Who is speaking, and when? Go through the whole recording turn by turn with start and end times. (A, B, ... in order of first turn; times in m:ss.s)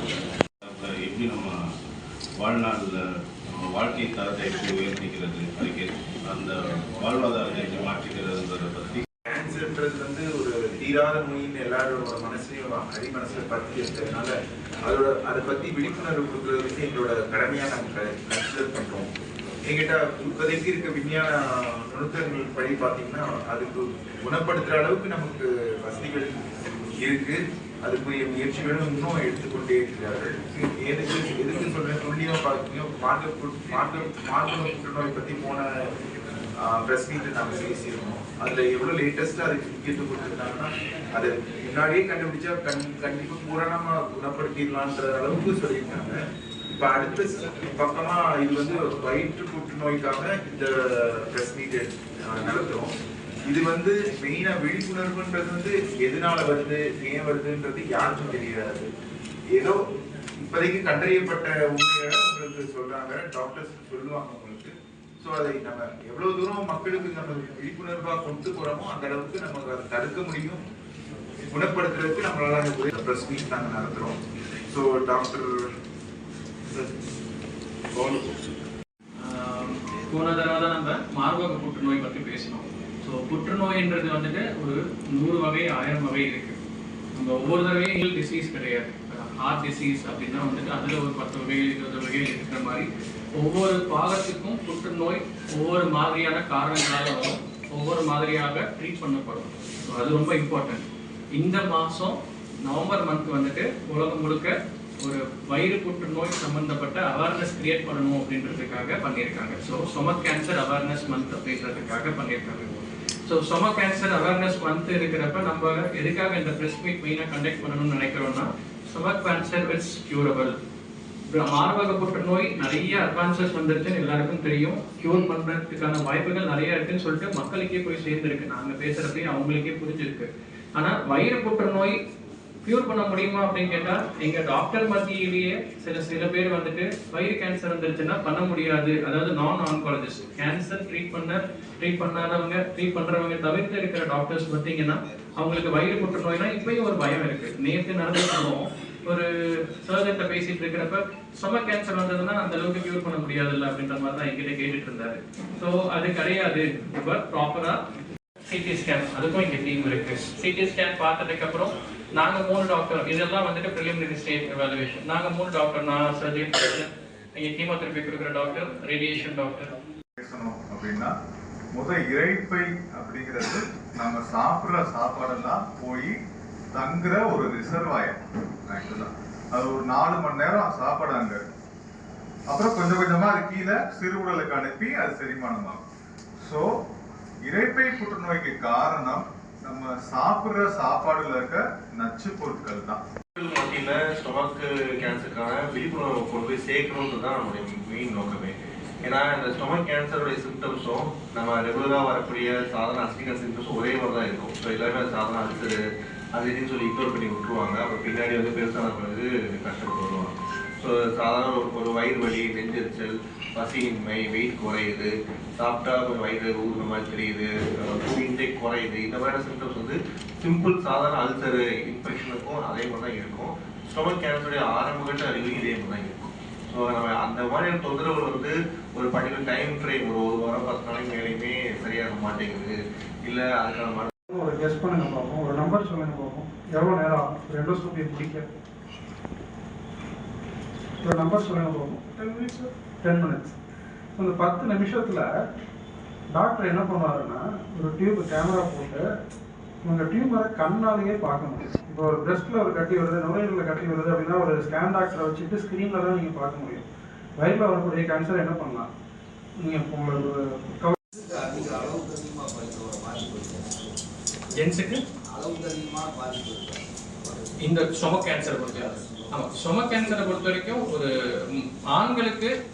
0:00.6-0:01.5 A
0:02.4-0:09.0 A
0:09.3-0:14.3 B
0:14.9-0:19.1 B
0:19.7-0:26.4 B
0:27.0-0:35.6 B
0:36.6-0:46.2 B
0:46.8-0:52.9 B
0:53.5-0:58.9 B
1:00.4-1:10.6 B
1:11.5-1:14.2 B
1:14.7-1:15.7 B
1:16.6-1:16.9 B
1:19.2-1:26.6 C
1:27.2-2:00.6 C
2:01.3-2:12.0 C
2:12.6-2:37.8 C
2:38.4-2:49.7 C
2:50.2-2:51.1 D
2:51.7-2:56.2 D
2:56.7-3:01.4 D
3:02.5-3:05.8 D
3:06.4-3:06.7 D
3:07.4-3:13.0 D
3:13.4-3:25.8 E
3:26.4-3:54.1 E
3:54.3-3:58.5 F
4:01.0-4:03.6 F
4:04.2-4:05.3 F
4:06.3-4:09.1 F
4:09.8-4:16.9 F
4:17.4-4:18.9 F
4:19.6-4:21.1 F
4:21.2-4:24.0 G
4:24.5-4:25.0 C
4:25.3-4:27.7 G
4:27.6-4:32.5 C
4:28.4-4:29.3 G